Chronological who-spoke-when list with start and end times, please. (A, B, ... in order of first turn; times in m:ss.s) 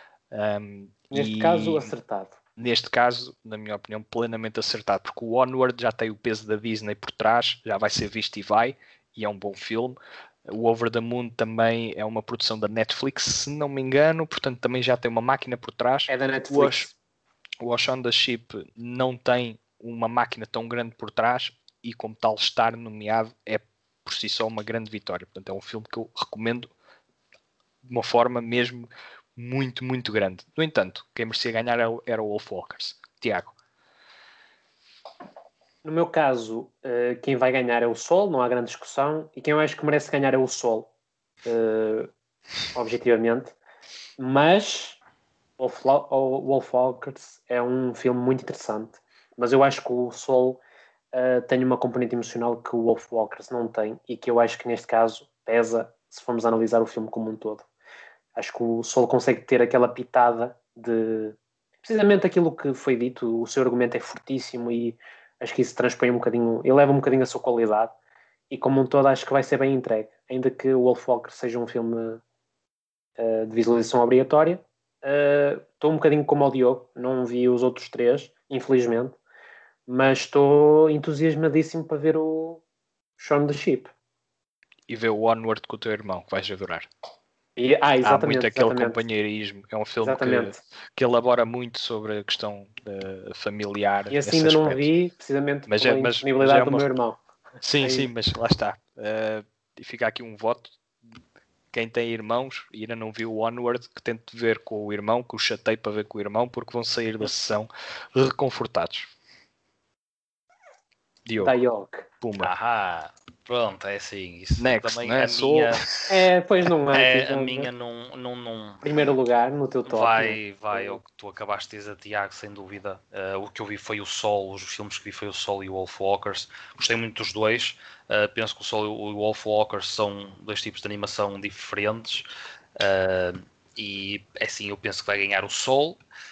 0:00.3-0:01.9 A
0:01.1-0:02.4 B
0:02.6-0:16.9 A
0:16.1-0:16.9 B
0:17.6-0:26.7 A
0:27.8-0:33.6 A
0:35.8-0:40.9 B
0:41.4-0:42.1 B
0:42.7-0:43.6 B
0:44.2-0:45.0 B
0:45.6-0:50.6 B
0:51.1-0:57.6 B
0:58.4-1:07.9 B
1:08.5-1:12.2 B
1:13.2-1:19.2 B
1:19.9-1:22.6 B
1:23.2-1:23.9 B
1:24.9-1:26.9 A
1:27.6-1:29.0 B
1:28.0-1:34.9 A
1:30.0-1:30.6 B
1:34.1-1:37.2 B
1:35.7-1:36.9 A
1:37.6-1:40.8 A
1:37.8-1:38.1 B
1:41.7-1:49.1 A
1:51.2-1:51.6 A
1:51.4-1:52.1 B
1:52.2-1:52.5 A
1:52.4-1:55.8 C
1:54.6-1:56.1 A
1:56.1-1:57.7 B
1:56.9-1:58.8 C
1:58.8-2:01.0 B
1:59.8-2:12.2 C
2:12.8-2:16.0 C